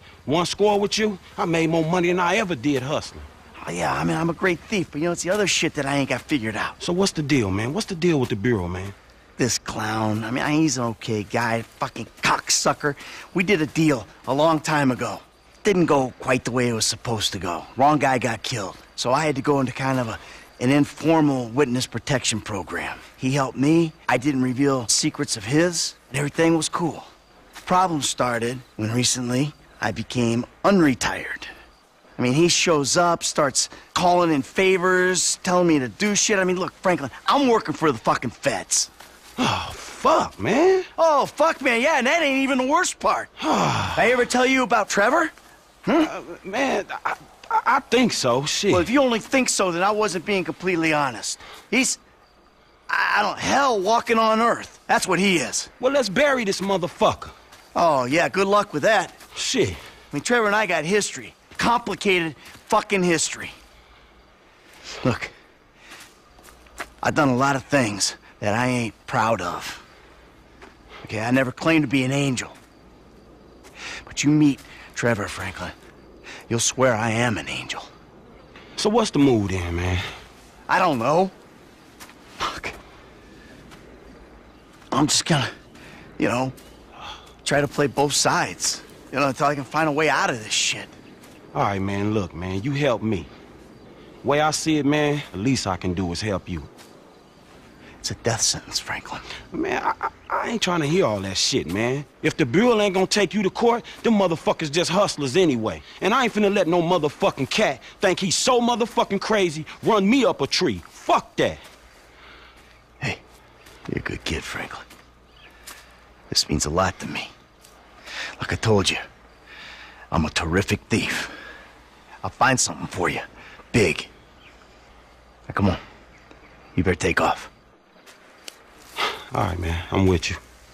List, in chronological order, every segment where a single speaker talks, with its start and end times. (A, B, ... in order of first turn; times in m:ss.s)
0:00.2-0:03.3 A
0:03.6-0:06.8 B
0:06.8-0:08.9 A
0:09.4-0:27.1 B
0:27.6-0:31.5 B
0:32.2-0:38.9 B
0:39.4-0:40.9 A
0:41.0-0:43.3 B
0:43.4-0:44.1 A
0:43.9-0:45.3 B
0:45.9-0:46.1 B
0:46.0-0:48.9 A
0:48.7-0:52.0 B
0:52.9-0:55.7 B
0:55.8-0:57.3 A
0:57.8-0:59.2 B
0:59.4-0:59.8 A
1:00.1-1:03.6 B
1:05.0-1:05.3 B
1:07.0-1:09.8 B
1:11.0-1:12.6 B
1:14.0-1:15.8 B
1:16.5-1:17.9 B
1:18.8-1:20.0 A
1:20.7-1:21.3 B
1:22.4-1:22.8 B
1:24.9-1:25.5 B
1:26.2-1:26.6 B
1:27.4-1:31.0 B
1:31.5-1:33.3 A
1:34.2-1:36.7 A
1:38.0-1:39.3 B
1:39.5-1:51.6 A
1:53.9-1:54.8 B
1:56.3-1:57.3 B
1:58.4-1:59.0 B
2:00.1-2:01.4 B
2:02.2-2:04.1 B
2:05.5-2:05.8 B
2:06.8-2:07.5 B
2:09.1-2:10.4 A